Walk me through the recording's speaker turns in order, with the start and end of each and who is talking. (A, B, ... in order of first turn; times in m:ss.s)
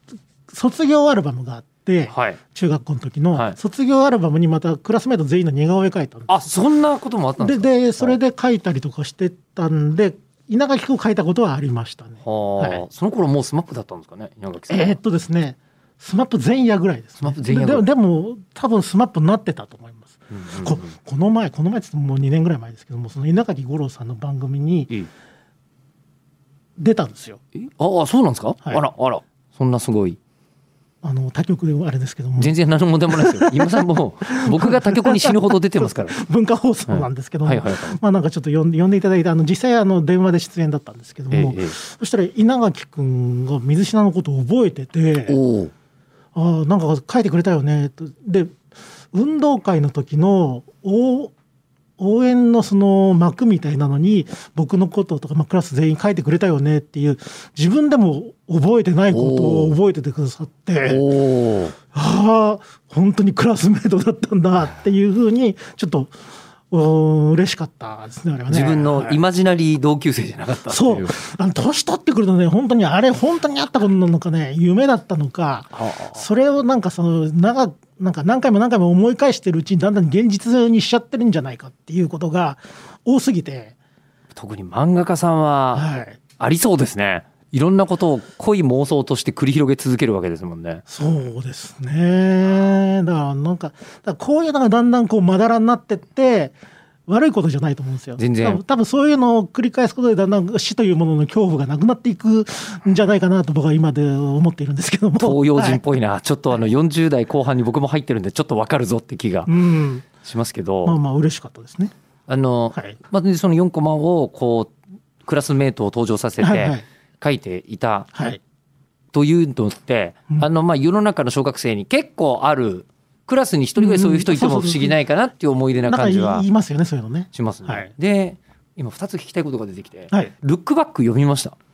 0:00.5-0:06.4 A
0:02.1-0:02.4 B
0:06.3-0:08.2 B
0:07.4-0:12.8 A
0:12.2-0:15.0 B
0:14.7-0:24.9 A
0:17.2-0:17.9 B
0:20.3-0:20.9 B
0:26.8-0:27.4 A
0:27.6-0:30.2 B
0:31.0-0:32.5 A
0:32.4-0:36.2 B
0:33.1-0:45.4 A
0:36.9-0:38.0 B
0:41.3-0:41.8 B
0:45.3-0:45.7 B
0:46.4-0:48.6 A
0:49.1-0:51.3 A
0:52.0-1:01.1 A
0:59.1-0:59.7 B
1:00.8-1:01.8 B
1:01.9-1:06.2 A
1:06.7-1:09.2 A
1:08.5-1:11.2 B
1:10.7-1:23.8 A
1:15.7-1:16.2 B
1:24.4-1:25.9 B
1:25.7-1:26.2 A
1:26.4-1:30.8 B
1:30.9-1:36.6 A
1:37.1-1:45.8 A
1:38.2-1:38.6 B
1:45.2-1:49.6 B
1:49.5-1:50.1 A
1:50.1-1:51.0 B
1:50.8-1:51.9 A
1:52.3-1:54.7 B
1:55.2-1:58.1 B
1:56.4-1:56.8 A
1:58.1-1:58.4 A
1:59.1-2:06.5 B
2:03.8-2:05.0 A
2:05.8-2:07.9 A
2:07.3-2:11.6 B